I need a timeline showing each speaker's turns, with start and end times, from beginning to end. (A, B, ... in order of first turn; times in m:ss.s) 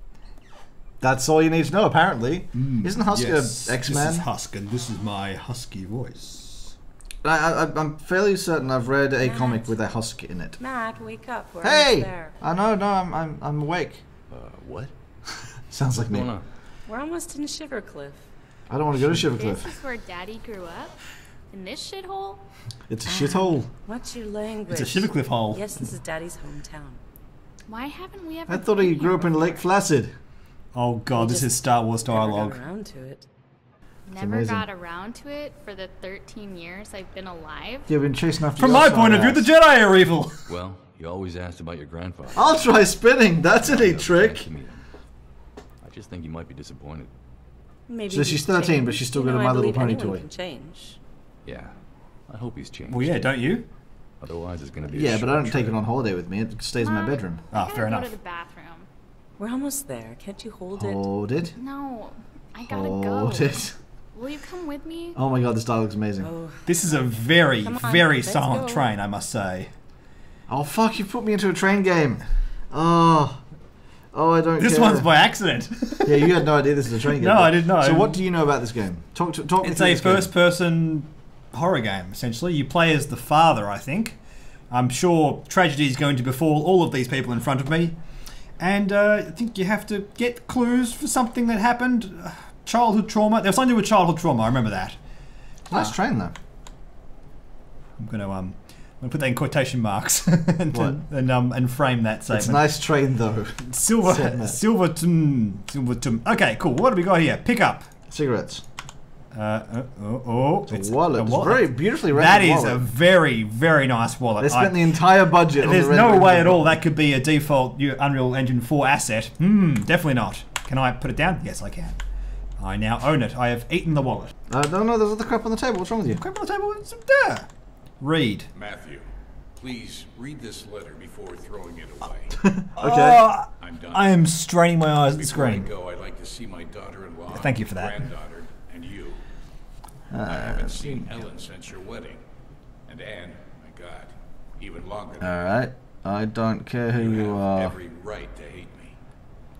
0:01.0-0:04.2 A
0:02.5-0:06.7 B
0:07.2-0:10.6 A
0:09.2-0:09.8 C
0:10.6-0:12.4 C
0:11.6-0:14.0 A
0:14.3-0:14.9 D
0:15.7-0:16.3 A
0:16.0-0:16.4 D
0:16.8-0:18.2 C
0:18.7-0:19.7 A
0:19.3-0:21.0 E
0:21.5-0:22.4 E
0:22.9-0:23.7 A
0:23.0-0:27.0 C
0:24.7-0:25.9 B
0:27.7-0:29.6 E
0:28.5-0:30.1 A
0:30.7-0:32.6 B
0:31.2-0:33.2 C
0:34.0-0:37.9 E
0:34.2-0:34.6 A
0:37.9-0:39.4 A
0:38.6-0:40.5 B
0:40.5-0:42.6 D
0:42.3-0:44.4 A
0:43.6-0:44.8 D
0:45.8-0:47.1 D
0:47.9-0:51.0 C
0:48.1-0:50.2 A
0:51.4-0:51.7 D
0:52.3-0:53.3 D
0:52.9-0:53.6 B
0:54.2-0:55.8 D
0:54.9-0:57.4 A
0:56.8-0:58.9 E
0:57.5-0:58.1 B
0:59.4-1:01.0 C
1:00.7-1:01.5 A
1:01.5-1:05.2 E
1:02.6-1:03.7 A
1:05.1-1:06.3 A
1:06.2-1:06.6 C
1:06.6-1:09.7 B
1:07.6-1:08.9 C
1:10.5-1:13.4 A
1:14.1-1:15.1 A
1:14.6-1:16.4 B
1:16.0-1:20.3 A
1:17.2-1:18.2 B
1:19.6-1:24.2 B
1:24.7-1:28.0 B
1:28.6-1:35.0 B
1:35.7-1:36.3 A
1:38.0-1:42.6 B
1:40.7-1:41.0 A
1:42.3-1:44.6 A
1:43.6-1:47.9 B
1:48.1-1:48.6 A
1:49.3-1:54.8 B
1:50.7-1:52.8 A
1:54.4-1:56.8 A
1:55.5-2:02.0 B
2:02.6-2:04.3 B
2:04.5-2:06.2 A
2:06.1-2:07.5 B
2:08.0-2:08.5 B
2:08.5-2:09.1 F
2:09.6-2:12.5 F
2:12.3-2:13.2 A
2:12.8-2:15.7 B
2:13.6-2:14.2 F
2:15.1-2:19.2 F
2:17.3-2:18.0 B
2:20.1-2:21.1 A
2:20.1-2:22.2 F
2:22.9-2:25.4 F
2:25.2-2:27.8 A
2:26.9-2:29.0 F